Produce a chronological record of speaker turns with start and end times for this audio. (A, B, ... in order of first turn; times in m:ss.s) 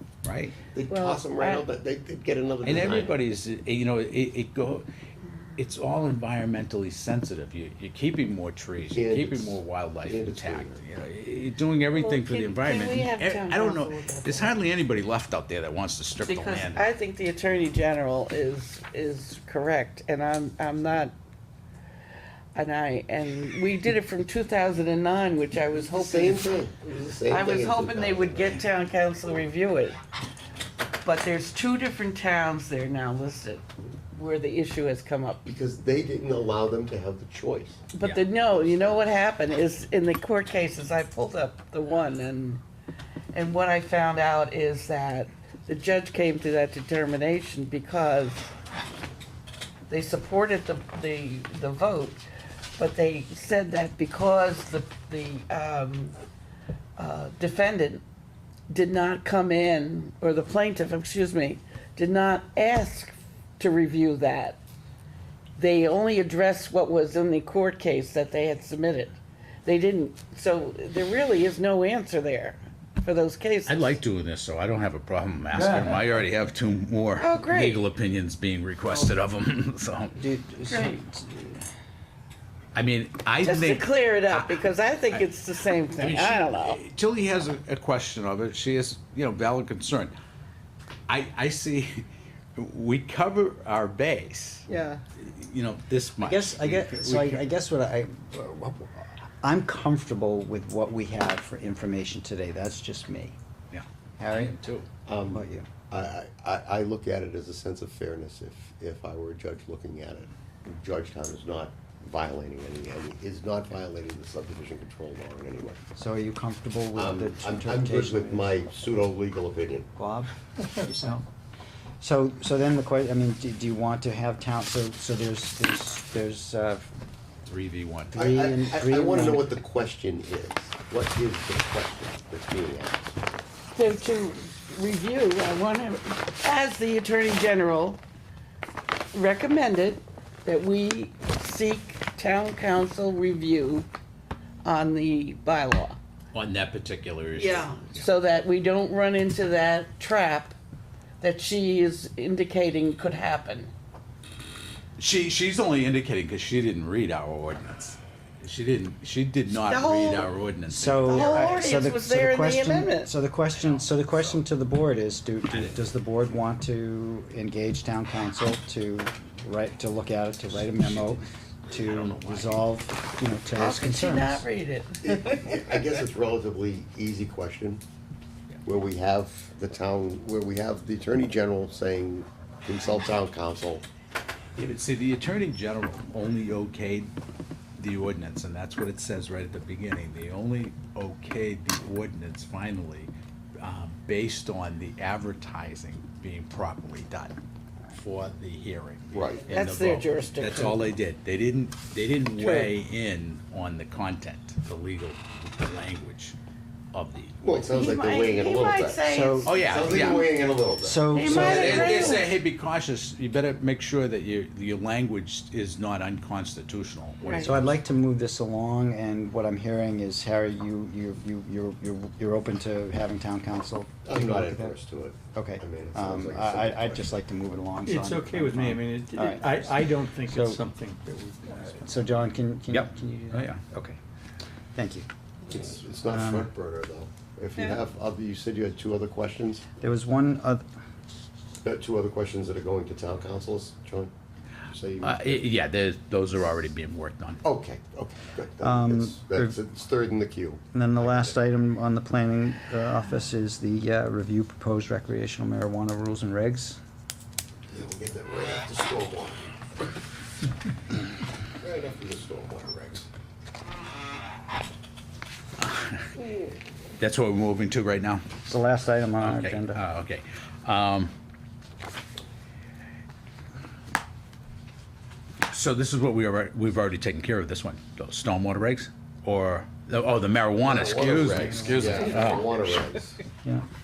0:00.2-0:00.6 A
0:00.7-0:03.2 B
0:00.9-0:01.6 C
0:02.6-0:04.9 A
0:05.6-0:16.8 A
0:08.9-0:10.8 B
0:11.9-0:14.6 C
0:16.2-0:21.1 C
0:22.5-0:26.6 C
0:25.8-0:28.6 B
0:27.2-0:30.0 C
0:31.0-0:35.5 C
0:35.4-0:37.9 B
0:37.9-0:42.6 C
0:38.0-0:38.2 A
0:38.4-0:39.1 B
0:43.3-0:48.5 C
0:49.9-0:52.2 C
0:52.8-0:56.1 C
0:57.0-0:58.0 C
0:58.7-1:04.6 C
1:05.6-1:13.9 C
1:13.6-1:20.2 A
1:15.5-1:16.1 D
1:17.2-1:17.8 C
1:20.2-1:21.6 D
1:20.7-1:21.0 C
1:22.7-1:25.3 A
1:23.4-1:26.8 C
1:26.0-1:30.1 A
1:31.1-1:32.0 A
1:32.6-1:34.7 A
1:34.7-1:35.0 C
1:35.2-1:37.4 A
1:36.2-1:43.4 D
1:43.7-1:44.9 A
1:44.2-1:44.6 D
1:45.0-1:55.8 B
1:45.3-1:45.7 D
1:55.9-1:58.5 D
1:56.9-1:59.9 B
2:00.0-2:01.2 D
2:02.0-2:06.9 D
2:07.4-2:08.2 A
2:08.1-2:09.5 D
2:08.1-2:13.2 B
2:13.7-2:18.0 C
2:19.1-2:23.9 C
2:24.6-2:26.0 C
2:26.3-2:28.1 A
2:27.4-2:30.6 C
2:31.2-2:33.7 C
2:35.0-2:41.5 A
2:39.5-2:40.3 C
2:40.7-2:54.4 D
2:41.0-2:43.1 C
2:43.5-2:44.4 A
2:45.5-2:45.8 A
2:51.7-2:52.6 A
2:53.5-2:55.9 C
2:55.0-2:57.8 B
2:58.6-3:03.8 B
3:04.6-3:07.1 A
3:07.8-3:17.4 A
3:17.9-3:26.4 A
3:19.1-3:19.4 B
3:19.5-3:20.8 C
3:22.4-3:22.7 C
3:26.9-3:27.5 A
3:27.4-3:32.0 B
3:27.7-3:30.1 C
3:29.0-3:29.5 D
3:29.4-3:30.3 A
3:30.8-3:32.0 D
3:31.1-3:32.3 C
3:31.2-3:37.8 A
3:37.2-3:37.6 C
3:37.4-3:44.7 D
3:44.0-3:47.1 B
3:45.3-3:50.6 D
3:47.8-3:51.9 E
3:51.6-3:54.0 D
3:52.7-3:53.6 A
3:54.7-3:55.0 D
3:55.5-3:59.6 B
3:56.1-3:56.5 D
3:59.8-4:00.6 D
4:01.6-4:04.1 B
4:04.7-4:05.4 B
4:05.0-4:07.4 A
4:07.4-4:11.3 B
4:08.6-4:09.5 D
4:10.7-4:16.8 D
4:17.7-4:19.5 B
4:21.6-4:23.1 B
4:25.6-4:26.1 A
4:26.2-4:26.6 B
4:27.0-4:28.2 A
4:28.4-4:29.8 D
4:29.2-4:31.1 A
4:35.5-4:42.6 A
4:40.6-4:43.2 B
4:41.4-4:41.9 D
4:41.5-4:41.9 E